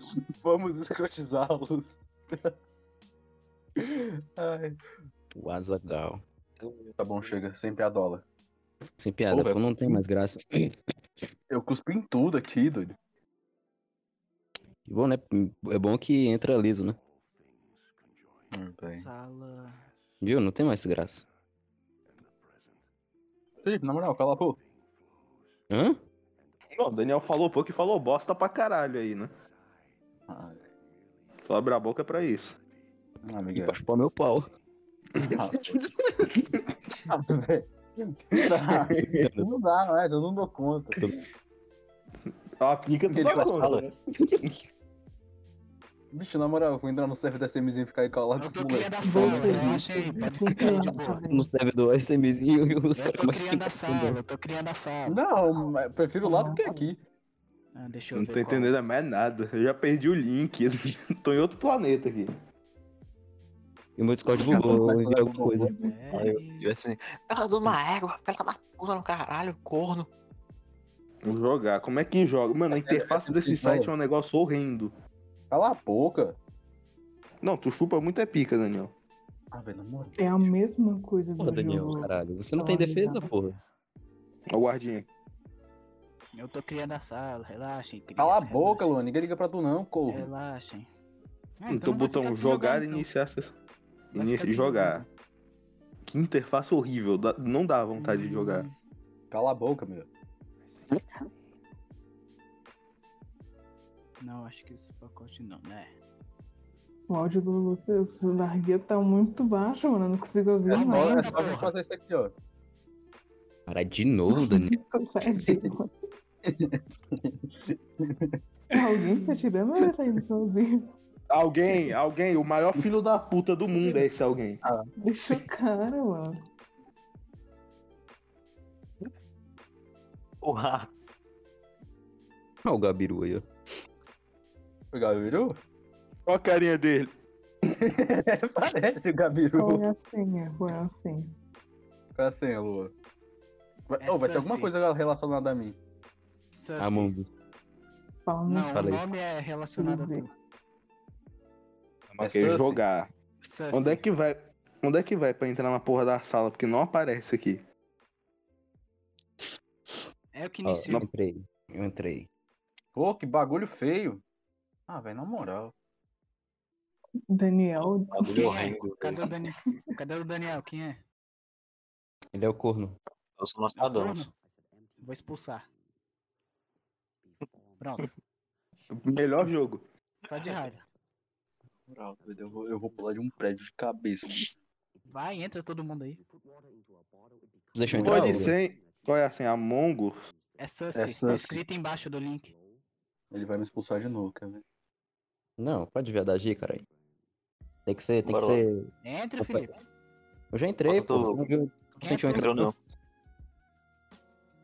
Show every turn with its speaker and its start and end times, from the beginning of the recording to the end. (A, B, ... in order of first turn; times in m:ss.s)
0:00.4-0:02.5 A
0:03.8-0:04.8 A
0:05.3-0:06.2 B
0:06.6-0:07.3 C
0:07.0-0:08.2 A
0:09.0-0:10.7 B
0:09.3-0:10.0 A
0:11.5-0:13.0 A
0:14.8-0:17.0 B
0:18.5-0:19.1 A
0:19.0-0:19.9 D
0:20.2-0:21.2 B
0:23.6-0:24.6 A
0:25.7-0:26.0 B
0:26.8-0:29.3 E
0:30.3-0:30.6 A
0:31.4-0:32.5 E
0:33.2-0:33.8 A
0:33.6-0:34.5 B
0:35.2-0:36.6 E
0:35.2-0:35.8 A
0:37.1-0:41.1 A
0:38.4-0:39.3 E
0:39.2-0:39.5 B
0:41.0-0:41.2 B
0:42.6-0:43.9 E
0:43.2-0:43.8 C
0:46.1-0:49.8 A
0:48.4-0:51.2 D
0:49.0-0:51.5 F
0:51.2-0:54.2 B
0:52.9-0:55.2 D
0:55.1-0:57.0 A
0:56.2-0:56.9 F
0:57.7-0:58.7 D
0:58.1-1:02.4 E
1:04.0-1:05.7 B
1:04.3-1:05.7 A
1:05.7-1:06.7 D
1:06.1-1:10.1 C
1:11.2-1:14.9 E
1:12.7-1:13.9 A
1:15.5-1:16.4 A
1:17.4-1:18.9 E
1:19.5-1:20.5 A
1:20.2-1:23.3 F
1:21.4-1:23.6 B
1:24.5-1:25.1 E
1:26.3-1:28.9 D
1:28.2-1:30.3 A
1:30.1-1:30.9 D
1:31.6-1:33.1 D
1:31.7-1:33.6 E
1:34.1-1:35.0 E
1:34.1-1:35.1 D
1:36.0-1:38.6 E
1:38.1-1:38.6 A
1:39.3-1:40.1 A
1:44.2-1:45.9 D
1:47.1-1:51.6 F
1:50.6-1:52.3 A
1:50.7-1:51.7 D
1:53.7-1:54.8 B
1:54.3-1:55.9 F
1:55.4-1:55.7 A
1:56.4-1:58.4 A
1:58.7-2:00.9 F
2:01.3-2:04.6 E
2:05.0-2:06.4 F
2:10.4-2:10.9 C
2:12.6-2:13.4 B
2:14.9-2:15.6 A
2:16.2-2:17.1 E
2:17.8-2:19.9 A
2:19.6-2:21.4 F
2:22.1-2:22.9 A
2:23.9-2:25.8 A
2:24.0-2:24.7 D
2:26.5-2:27.1 D
2:26.8-2:27.3 B
2:28.2-2:28.8 F
2:28.5-2:30.3 D
2:28.7-2:29.0 B
2:29.8-2:30.2 F
2:32.1-2:33.1 E
2:32.2-2:32.8 A
2:33.4-2:34.0 D
2:33.7-2:37.6 E
2:40.3-2:41.0 D
2:40.6-2:42.3 B
2:42.9-2:44.2 A
2:44.9-2:45.7 A
2:47.3-2:48.7 F
2:48.2-2:49.2 C
2:48.2-2:51.0 D
2:52.3-2:53.0 B
2:53.4-2:54.2 C
2:53.7-2:54.3 D
2:55.0-2:55.7 D
2:57.8-2:58.1 D
2:58.9-2:59.8 E
3:00.2-3:00.8 D
3:01.9-3:04.5 A
3:05.1-3:06.2 D
3:07.7-3:08.6 B
3:07.9-3:08.4 A
3:08.0-3:10.2 E
3:10.6-3:12.5 D
3:10.9-3:11.6 A
3:13.3-3:14.6 A
3:15.6-3:16.8 B
3:17.8-3:18.9 B
3:18.3-3:18.6 C
3:19.0-3:19.8 D
3:20.5-3:22.7 B
3:20.9-3:21.4 C
3:22.0-3:22.6 D
3:22.3-3:22.7 C